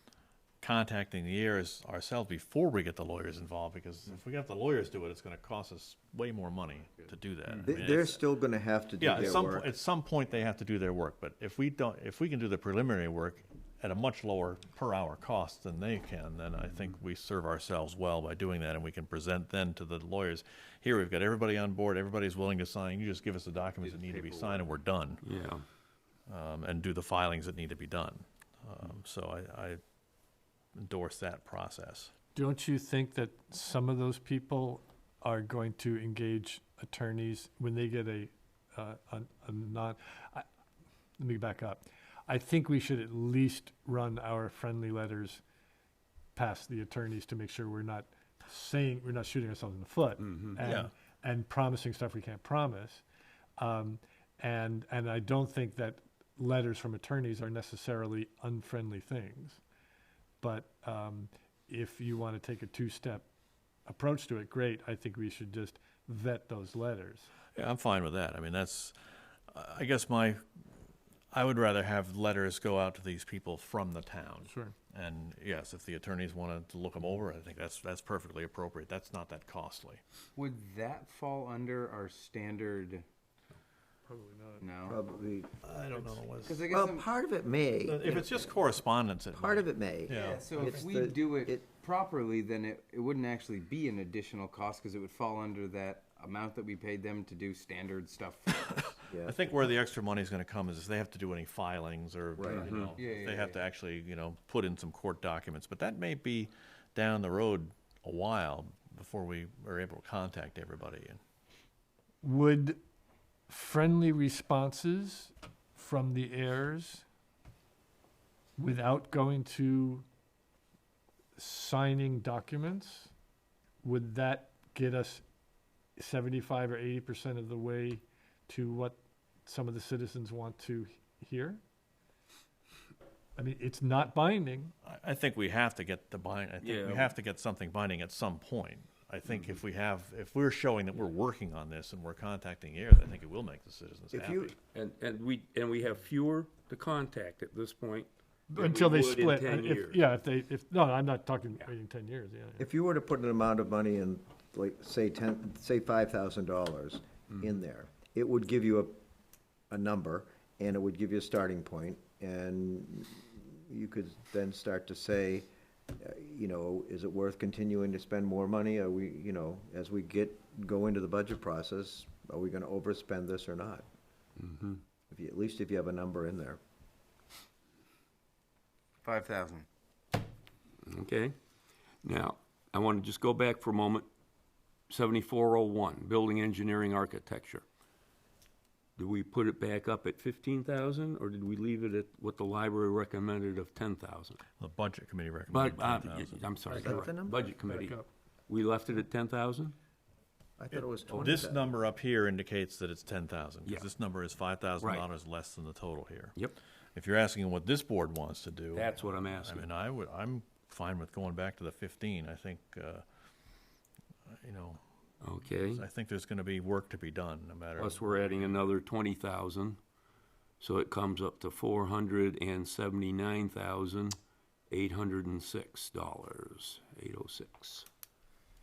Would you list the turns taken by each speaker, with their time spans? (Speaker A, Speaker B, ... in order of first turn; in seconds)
Speaker A: 0.6-8.2, 9.0-25.2, 26.3-29.8, 30.8-32.1, 50.6-50.9, 67.5-68.9, 69.5-70.4, 71.3-80.0, 85.6-86.6, 87.8-90.8, 98.7-111.2, 134.8-144.5, 194.6-196.8, 200.7-206.4, 206.9-213.0, 214.3-214.8, 215.7-218.5
Speaker B: 7.6-9.7, 84.8-85.6, 86.7-88.5, 89.3-91.6, 99.1-99.4, 102.4-102.7, 144.1-144.5, 152.6-159.0, 159.7-173.9, 175.1-176.6, 196.7-197.5, 200.6-201.8
Speaker C: 23.8-24.7, 80.3-83.0, 84.6-85.0, 86.4-87.1, 90.1-98.8, 102.4-103.6, 179.0-179.7
Speaker D: 25.2-25.6, 50.2-50.6, 102.6-102.9, 136.6-137.1, 144.7-150.0, 174.4-174.8, 180.8-181.3, 182.0-184.1, 184.9-187.6, 189.0-194.4, 195.5-199.7, 204.8-205.1, 208.7-209.7, 215.2-215.8, 217.8-219.8, 220.6-224.2, 224.7-227.9
Speaker E: 32.3-40.5, 41.2-45.4, 46.3-53.0, 53.6-59.6, 60.4-63.2, 63.9-67.3, 74.5-74.7, 84.1-84.6, 112.2-112.8, 113.5-117.0, 118.6-120.0, 121.3-123.1, 123.8-125.2, 126.0-131.6, 133.4-134.7, 148.5-152.6, 197.7-198.0